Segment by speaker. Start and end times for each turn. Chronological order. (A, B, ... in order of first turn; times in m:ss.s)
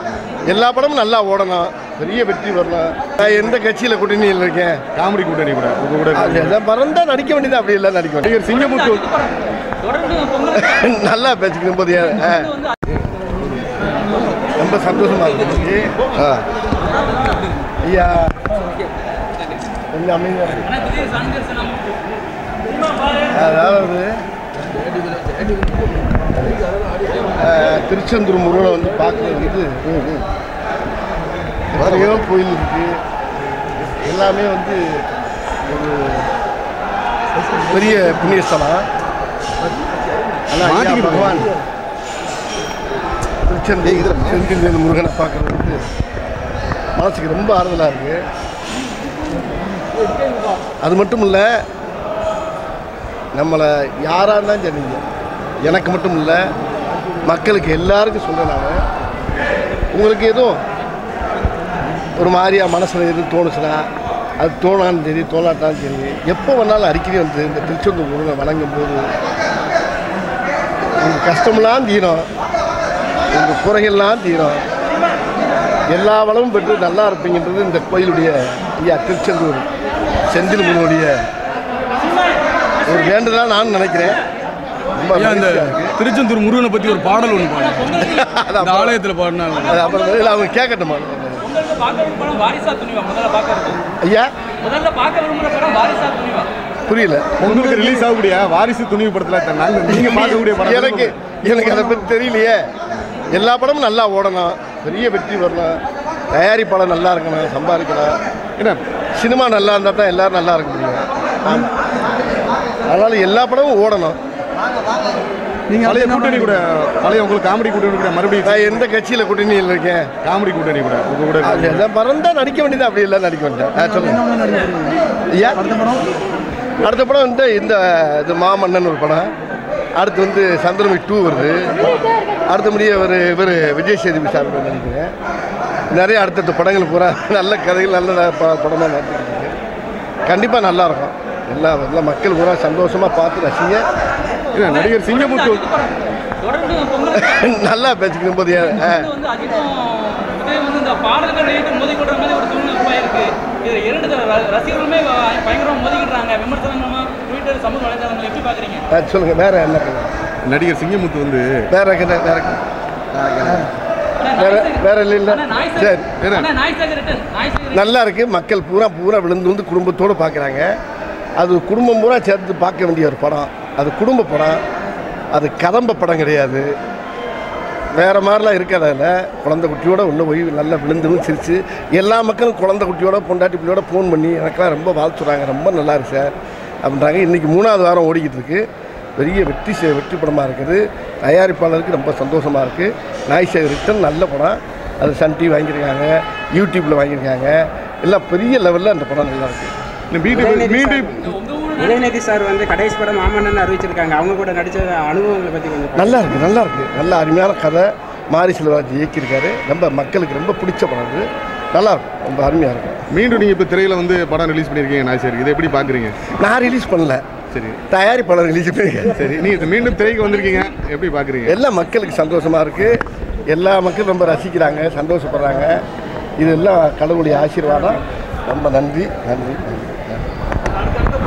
0:00.5-0:04.8 A
0:05.0-0:06.6 B
0:06.1-0:08.4 A
0:08.2-0:09.0 B
0:08.4-0:10.8 C
0:10.6-0:12.5 A
0:12.2-0:12.7 C
0:14.6-0:16.4 A
0:17.8-0:18.5 A
0:19.9-0:20.7 A
0:20.6-0:21.8 C
0:22.9-0:23.2 C
0:23.3-0:24.1 A
0:27.4-0:30.0 A
0:31.7-0:33.0 A
0:31.8-0:32.1 B
0:33.8-0:35.0 A
0:35.6-0:36.3 A
0:37.7-0:38.8 A
0:40.5-0:41.5 A
0:40.6-0:41.5 B
0:43.4-0:45.8 A
0:43.9-0:44.4 B
0:47.0-0:48.2 A
0:50.8-0:51.6 A
0:53.3-0:55.0 A
0:55.6-0:56.4 A
0:57.2-0:58.8 A
0:59.9-1:00.6 A
1:02.2-1:03.8 A
1:04.4-1:09.1 A
1:11.0-1:12.2 A
1:13.3-1:14.6 A
1:15.9-1:19.7 A
1:20.3-1:21.2 A
1:22.8-1:24.2 A
1:25.0-1:26.0 A
1:25.2-1:28.0 D
1:26.8-1:28.2 C
1:27.9-1:29.0 A
1:28.6-1:29.8 D
1:29.5-1:30.5 C
1:29.6-1:31.5 A
1:31.4-1:33.8 C
1:34.0-1:34.3 A
1:34.6-1:36.5 C
1:36.9-1:37.4 A
1:37.4-1:41.1 B
1:37.5-1:38.0 D
1:39.9-1:42.6 A
1:43.3-1:45.8 A
1:46.3-1:48.2 A
1:49.2-1:51.7 A
1:52.9-1:54.2 A
1:55.7-1:58.7 B
1:55.7-1:56.3 D
1:58.4-2:00.1 A
2:00.2-2:01.8 B
2:01.4-2:04.3 A
2:05.3-2:05.9 A
2:06.8-2:09.3 A
2:10.0-2:11.9 A
2:12.5-2:15.1 A
2:15.9-2:19.6 A
2:20.2-2:23.8 A
2:24.5-2:25.7 B
2:24.6-2:27.4 C
2:27.1-2:29.1 A
2:28.7-2:38.8 C
2:38.9-2:40.1 A
2:40.4-2:41.7 B
2:41.7-2:42.6 A
2:43.1-2:43.7 B
2:44.2-2:47.8 C
2:44.4-2:46.1 A
2:46.2-2:46.5 B
2:47.7-2:50.7 A
2:51.4-2:54.6 A
2:55.3-2:56.7 A
2:58.0-3:08.6 A
3:09.2-3:19.7 A
3:20.1-3:21.2 B
3:20.3-3:21.2 E
3:21.2-3:22.1 C
3:21.8-3:26.4 E
3:25.9-3:33.0 A
3:33.1-3:36.2 B
3:36.3-3:37.2 A
3:37.5-3:37.8 B
3:37.9-3:39.4 A
3:39.1-3:41.6 B
3:41.4-3:43.0 A
3:43.5-3:45.8 A
3:46.4-3:50.2 A